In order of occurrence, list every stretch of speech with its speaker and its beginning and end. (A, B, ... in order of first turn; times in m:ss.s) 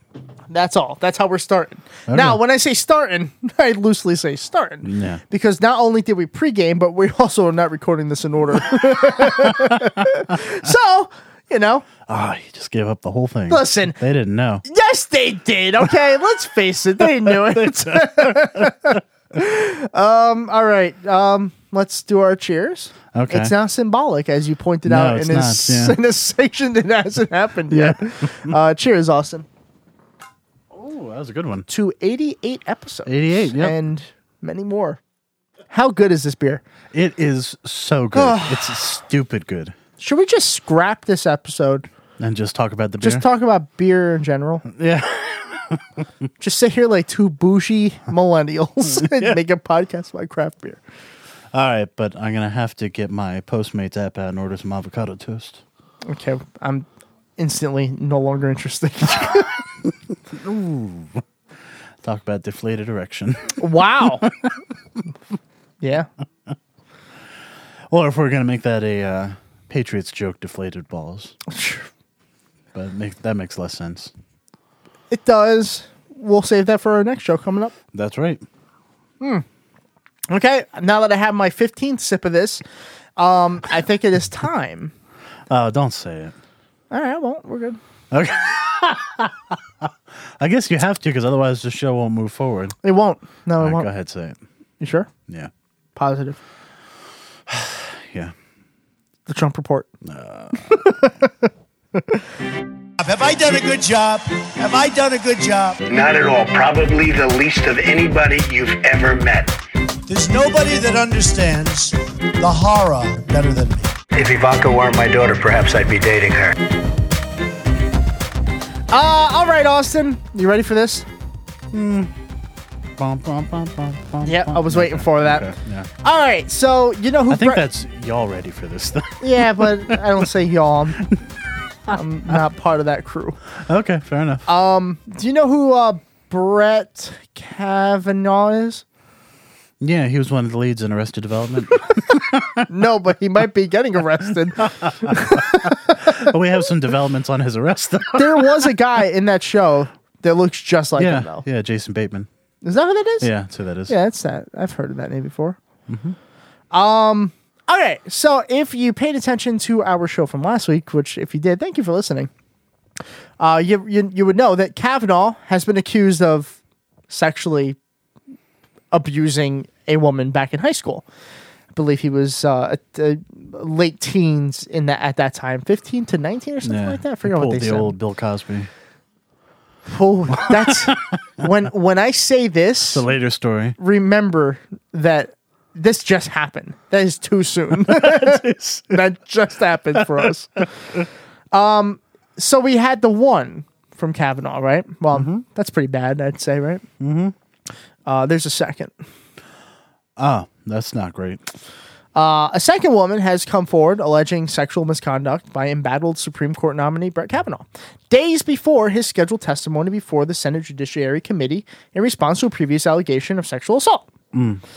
0:00.5-0:11.9 A
0:02.1-0:02.4 B
0:04.8-0:05.2 B
0:09.2-0:09.9 B
0:12.1-0:14.6 B
0:13.5-0:14.0 A
0:14.6-0:29.5 A
0:17.0-0:18.7 B
0:23.1-0:23.5 B
0:24.8-0:26.0 B
0:27.7-0:28.5 B
0:30.7-0:31.7 B
0:31.7-0:35.0 A
0:33.1-0:33.8 B
0:35.7-0:36.6 A
0:36.9-0:39.8 B
0:38.1-0:38.6 A
0:40.0-0:41.9 A
0:42.2-0:43.2 B
0:43.0-0:44.6 A
0:44.7-0:45.8 B
0:46.4-0:50.8 A
0:49.0-0:49.3 B
0:51.5-0:55.6 B
0:56.0-0:59.6 A
1:00.3-1:01.2 B
1:02.0-1:03.6 B
1:03.6-1:04.2 A
1:04.2-1:04.5 B
1:05.8-1:06.1 A
1:07.9-1:11.4 B
1:11.5-1:11.9 A
1:12.7-1:14.1 B
1:15.1-1:17.7 A
1:17.9-1:18.4 B
1:20.3-1:22.6 A
1:23.2-1:24.9 A
1:25.5-1:26.3 B
1:26.9-1:27.8 A
1:28.1-1:32.8 B
1:32.8-1:33.9 A
1:33.6-1:34.4 B
1:34.8-1:35.1 A
1:36.0-1:36.4 A
1:37.5-1:38.3 B
1:39.3-1:39.9 A
1:40.0-1:40.9 B
1:40.7-1:41.5 A
1:43.0-1:45.8 C
1:45.9-1:49.6 D
1:50.1-1:53.9 C
1:54.1-1:56.6 D
1:58.9-2:01.1 A
2:01.7-2:02.1 B
2:03.0-2:05.9 B
2:04.2-2:07.7 A
2:07.3-2:10.3 B
2:09.2-2:11.0 A
2:11.9-2:13.4 A
2:13.6-2:14.4 B
2:14.5-2:18.8 A
2:19.8-2:22.7 B
2:22.7-2:26.2 A
2:24.6-2:28.7 B
2:28.2-2:31.4 A
2:31.0-2:32.3 B
2:32.6-2:33.3 A
2:33.2-2:34.0 B
2:33.9-2:35.6 A
2:35.9-2:36.2 B
2:36.7-2:42.3 A
2:43.4-2:46.6 A
2:47.1-2:47.8 A
2:48.9-2:51.1 A
2:51.7-2:57.9 A
2:56.6-2:58.7 B
2:59.9-3:03.1 A
3:00.4-3:01.0 B
3:02.9-3:03.8 B
3:03.8-3:10.7 A
3:07.8-3:09.0 B
3:10.0-3:10.3 B
3:11.5-3:16.8 A
3:15.1-3:15.4 B
3:17.0-3:17.4 B
3:18.1-3:18.9 A
3:20.2-3:21.4 B
3:22.2-3:34.1 A
3:34.3-3:34.6 B